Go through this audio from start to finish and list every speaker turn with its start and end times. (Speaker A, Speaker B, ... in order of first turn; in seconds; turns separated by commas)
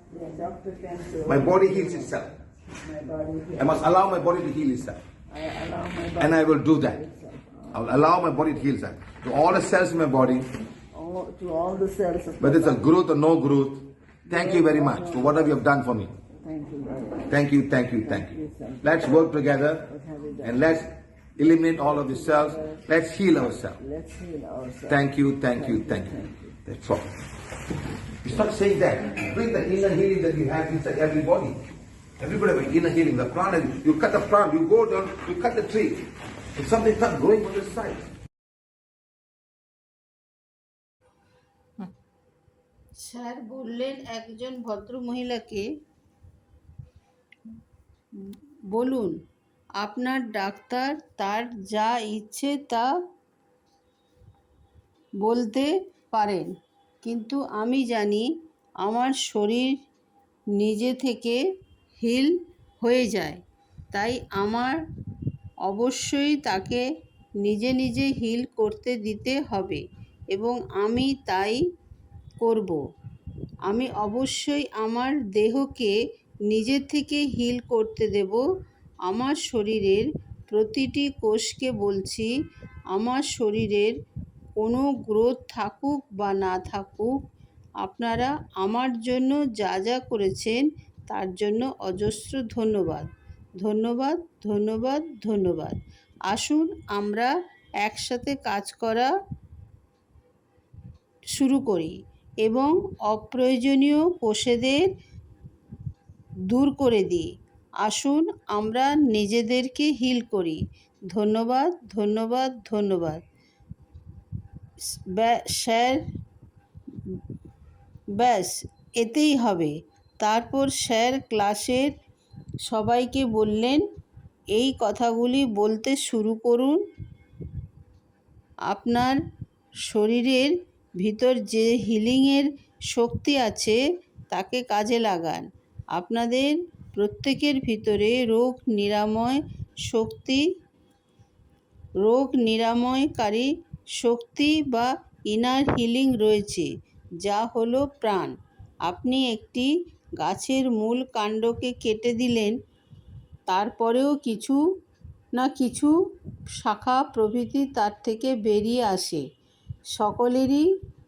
Speaker A: 0.1-2.1, Speaker B: 1.2-2.3, Speaker A: 2.7-3.9, Speaker B: 3.6-5.0, Speaker A: 5.3-7.9, Speaker B: 6.2-7.0, Speaker B: 7.7-10.5, Speaker A: 10.9-12.9, Speaker B: 12.4-16.1, Speaker A: 14.3-15.6, Speaker A: 16.4-17.3, Speaker B: 17.3-19.9, Speaker A: 18.0-20.8, Speaker B: 20.4-23.8, Speaker A: 21.4-22.8, Speaker A: 23.7-25.0, Speaker B: 24.9-27.1, Speaker A: 25.5-26.6, Speaker B: 28.2-31.6, Speaker B: 32.2-36.0, Speaker B: 36.6-38.0, Speaker C: 43.0-45.6, Speaker C: 48.7-49.1, Speaker C: 49.8-52.9, Speaker C: 55.2-56.5, Speaker C: 57.0-58.2, Speaker C: 58.8-59.7, Speaker C: 60.6-61.4, Speaker C: 62.0-63.4, Speaker C: 63.9-64.8, Speaker C: 65.7-66.8, Speaker C: 67.4-71.6, Speaker C: 72.4-72.8, Speaker C: 73.7-75.9, Speaker C: 76.5-78.4, Speaker C: 79.1-82.3, Speaker C: 82.9-83.9, Speaker C: 84.6-87.1, Speaker C: 87.8-93.1, Speaker C: 93.6-95.8, Speaker C: 96.3-97.3, Speaker C: 97.8-99.1, Speaker C: 101.3-104.9, Speaker C: 106.5-107.3, Speaker C: 107.8-110.6, Speaker C: 111.1-113.2, Speaker C: 115.1-116.0, Speaker C: 118.2-121.9, Speaker C: 122.7-123.8, Speaker C: 124.5-126.8, Speaker C: 128.7-129.2, Speaker C: 129.9-133.8, Speaker C: 134.3-140.4, Speaker C: 142.0-143.5, Speaker C: 144.0-146.7, Speaker C: 147.2-148.3, Speaker C: 148.9-149.7, Speaker C: 150.2-152.6, Speaker C: 153.5-154.6, Speaker C: 155.4-155.9, Speaker C: 156.6-159.2, Speaker C: 159.9-160.7